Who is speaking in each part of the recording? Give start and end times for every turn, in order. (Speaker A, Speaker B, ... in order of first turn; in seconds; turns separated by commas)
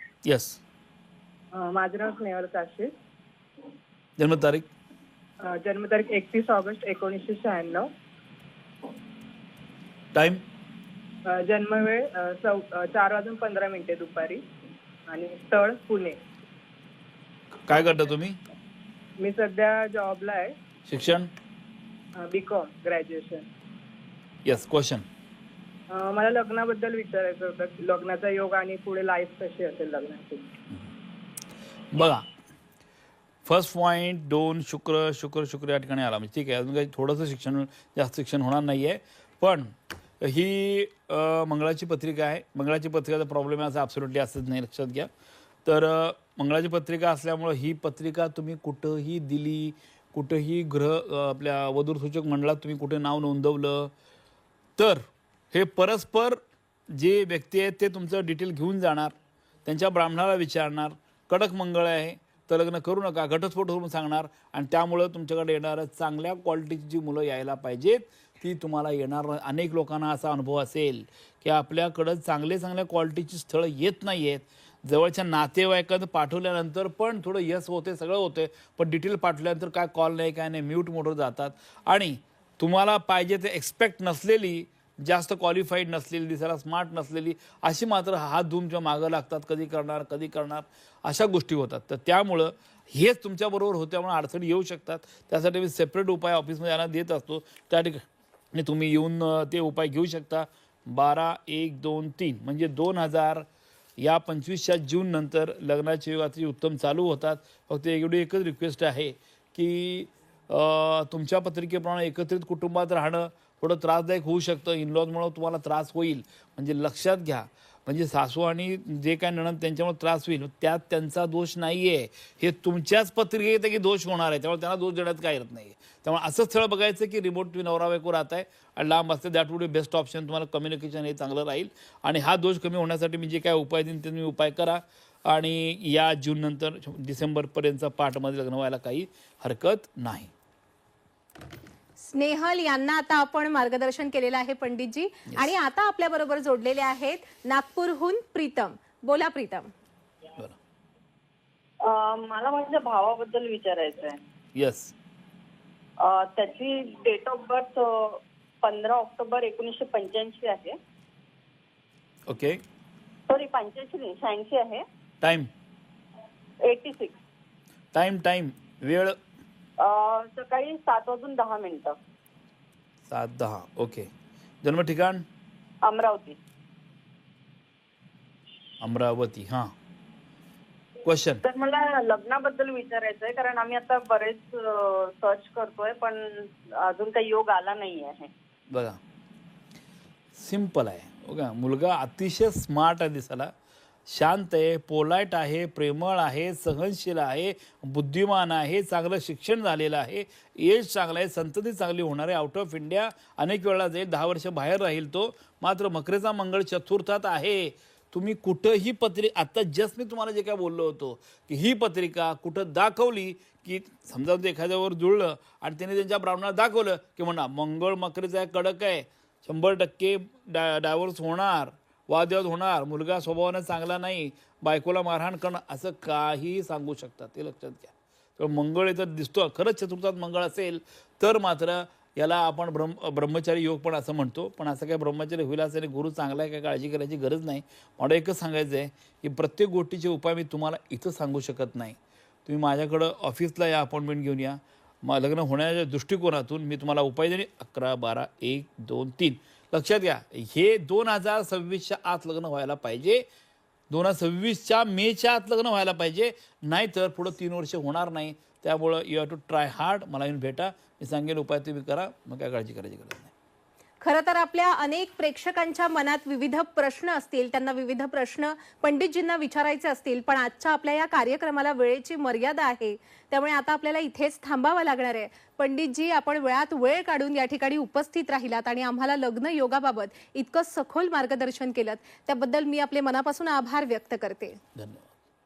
Speaker A: 0.2-0.6, Speaker B: 1.5-2.9, Speaker A: 4.2-4.7, Speaker B: 5.4-7.9, Speaker A: 10.1-10.4, Speaker B: 11.3-14.4, Speaker B: 15.1-16.2, Speaker A: 17.7-18.4, Speaker B: 19.2-20.6, Speaker A: 20.9-21.3, Speaker B: 22.2-23.5, Speaker A: 24.4-25.1, Speaker B: 25.9-30.5, Speaker A: 31.9-32.3, Speaker A: 33.5-45.1, Speaker A: 45.6-53.9, Speaker A: 54.8-59.1, Speaker A: 59.7-103.5, Speaker A: 104.0-140.3, Speaker C: 142.0-149.7, Speaker D: 151.8-154.2, Speaker A: 154.6-154.9, Speaker D: 156.0-160.8, Speaker A: 162.3-162.6, Speaker D: 163.3-164.8, Speaker A: 165.2-165.5, Speaker D: 166.6-167.2, Speaker A: 167.9-169.2, Speaker D: 169.8-172.0, Speaker A: 173.1-174.1, Speaker A: 174.6-175.3, Speaker D: 175.8-176.4, Speaker A: 178.8-179.7, Speaker A: 181.1-181.4, Speaker D: 181.4-188.3, Speaker A: 188.7-189.0, Speaker A: 190.3-193.5, Speaker A: 194.1-253.2, Speaker A: 253.9-263.3, Speaker C: 264.0-284.6, Speaker A: 284.8-285.1